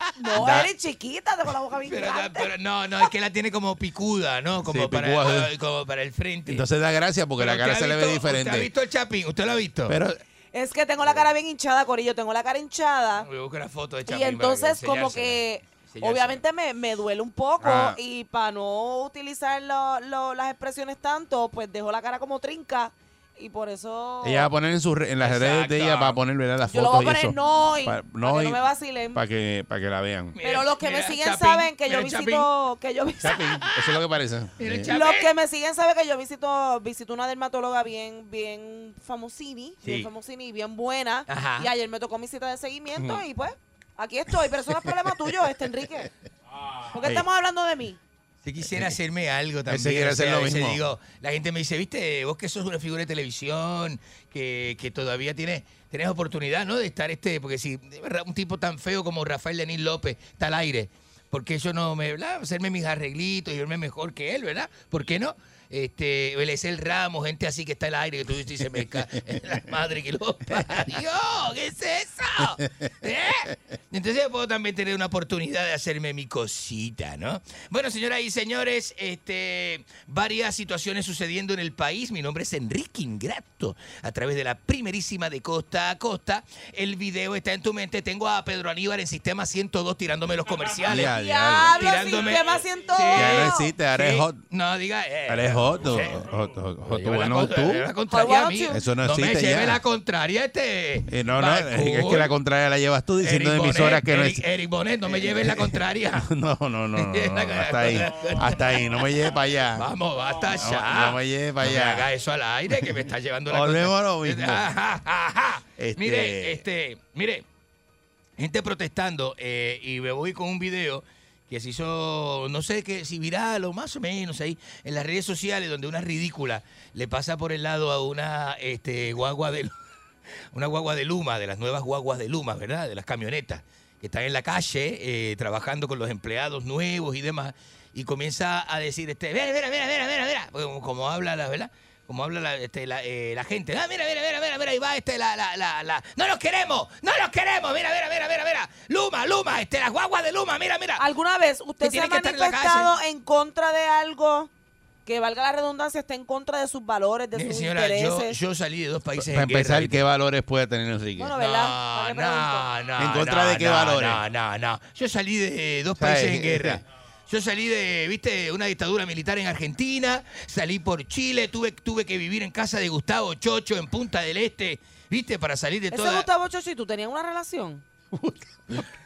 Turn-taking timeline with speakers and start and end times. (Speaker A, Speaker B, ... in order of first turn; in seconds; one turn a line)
Speaker A: 0.2-2.5
Speaker B: 0.4-0.7
Speaker C: 1.8-6.6
Speaker B: 4.6-5.5
Speaker B: 6.5-8.7
Speaker C: 7.4-10.0
Speaker B: 9.9-10.2
Speaker A: 10.5-13.3
Speaker C: 13.2-16.4
Speaker A: 14.1-24.5
Speaker B: 17.6-18.0
Speaker B: 24.2-28.6
Speaker C: 25.2-26.2
Speaker A: 26.7-29.2
Speaker B: 29.1-30.4
Speaker C: 30.3-32.5
Speaker A: 30.4-33.5
Speaker B: 33.2-34.9
Speaker C: 33.6-34.0
Speaker C: 34.6-35.3
Speaker A: 34.9-46.1
Speaker C: 39.8-40.1
Speaker C: 41.3-41.7
Speaker B: 43.0-43.2
Speaker A: 46.9-48.0
Speaker C: 48.4-91.1
Speaker B: 49.7-50.8
Speaker B: 90.8-92.0
Speaker A: 91.0-93.7
Speaker C: 91.7-96.3
Speaker B: 93.1-94.4
Speaker B: 95.3-97.9
Speaker C: 96.8-102.3
Speaker A: 98.1-98.8
Speaker B: 98.7-99.8
Speaker B: 101.1-104.4
Speaker C: 103.2-106.3
Speaker B: 105.1-109.9
Speaker C: 107.0-117.4
Speaker B: 110.5-112.1
Speaker B: 113.5-114.7
Speaker B: 115.8-116.6
Speaker C: 118.4-129.7
Speaker C: 130.5-151.0
Speaker A: 151.0-154.5
Speaker C: 151.8-152.9
Speaker A: 155.1-158.4
Speaker C: 157.3-160.0
Speaker B: 159.2-161.3
Speaker A: 161.2-162.7
Speaker C: 161.3-176.3
Speaker B: 163.0-164.2
Speaker B: 166.0-166.8
Speaker A: 175.9-177.8
Speaker B: 178.1-178.5